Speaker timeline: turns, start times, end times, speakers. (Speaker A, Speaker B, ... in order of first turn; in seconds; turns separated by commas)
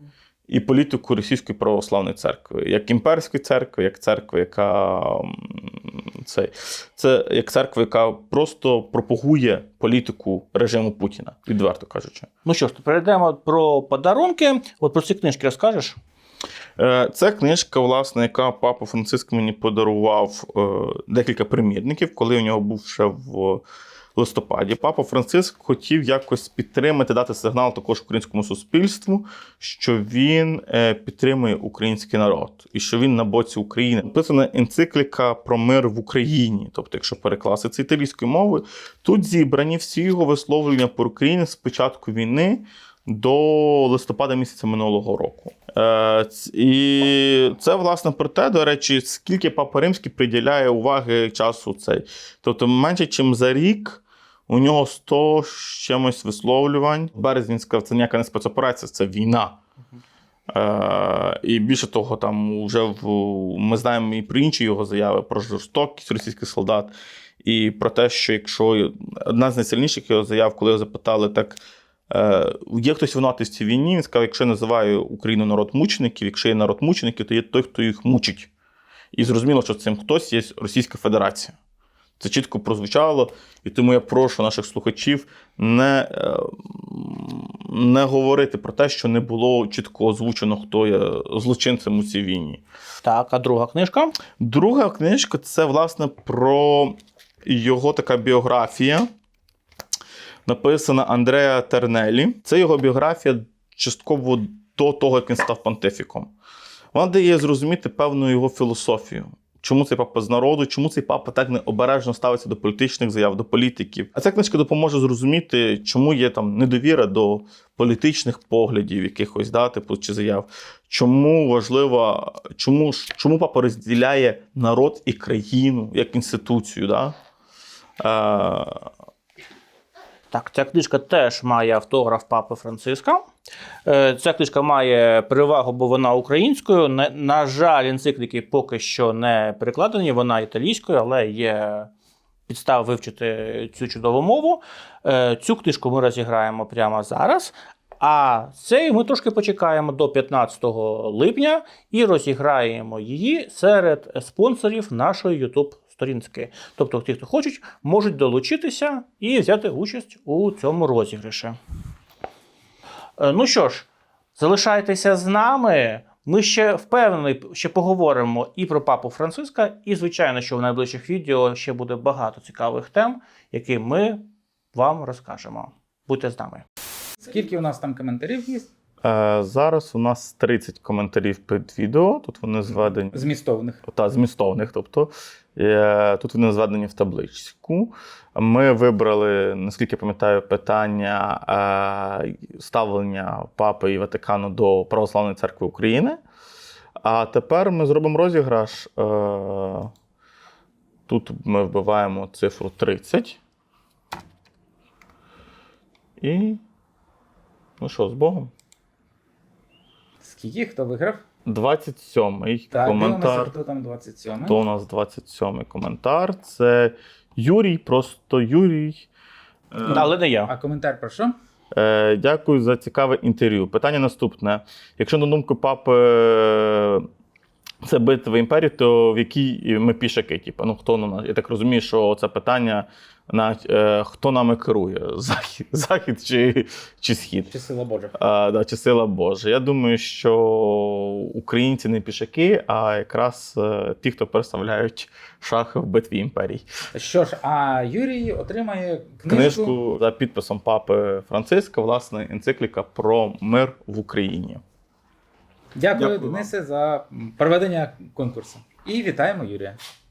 Speaker A: 0.5-12.3, Speaker B: 12.4-16.0, Speaker A: 16.8-23.6, Speaker A: 24.1-59.6, Speaker A: 60.5-78.5, Speaker A: 79.1-81.5, Speaker A: 82.2-92.6, Speaker B: 93.0-94.2, Speaker A: 94.4-99.1, Speaker A: 100.5-106.3, Speaker A: 106.9-127.2, Speaker A: 128.0-128.9, Speaker B: 130.3-133.3, Speaker B: 133.8-141.9, Speaker B: 142.5-161.6, Speaker B: 163.2-176.6, Speaker C: 177.2-178.7, Speaker A: 179.0-183.2, Speaker C: 183.1-183.8, Speaker A: 183.9-196.2, Speaker A: 197.0-199.9, Speaker A: 201.1-203.4, Speaker A: 206.2-206.6, Speaker A: 207.8-208.5, Speaker C: 210.2-211.2, Speaker A: 211.4-213.5, Speaker C: 212.7-214.6, Speaker A: 214.4-219.1, Speaker C: 219.8-221.3, Speaker B: 219.8-220.5, Speaker A: 221.7-227.1, Speaker A: 227.8-237.5, Speaker C: 237.5-238.1, Speaker A: 238.1-246.6, Speaker C: 246.9-249.8, Speaker A: 249.3-254.6, Speaker C: 255.8-259.8, Speaker A: 255.9-256.5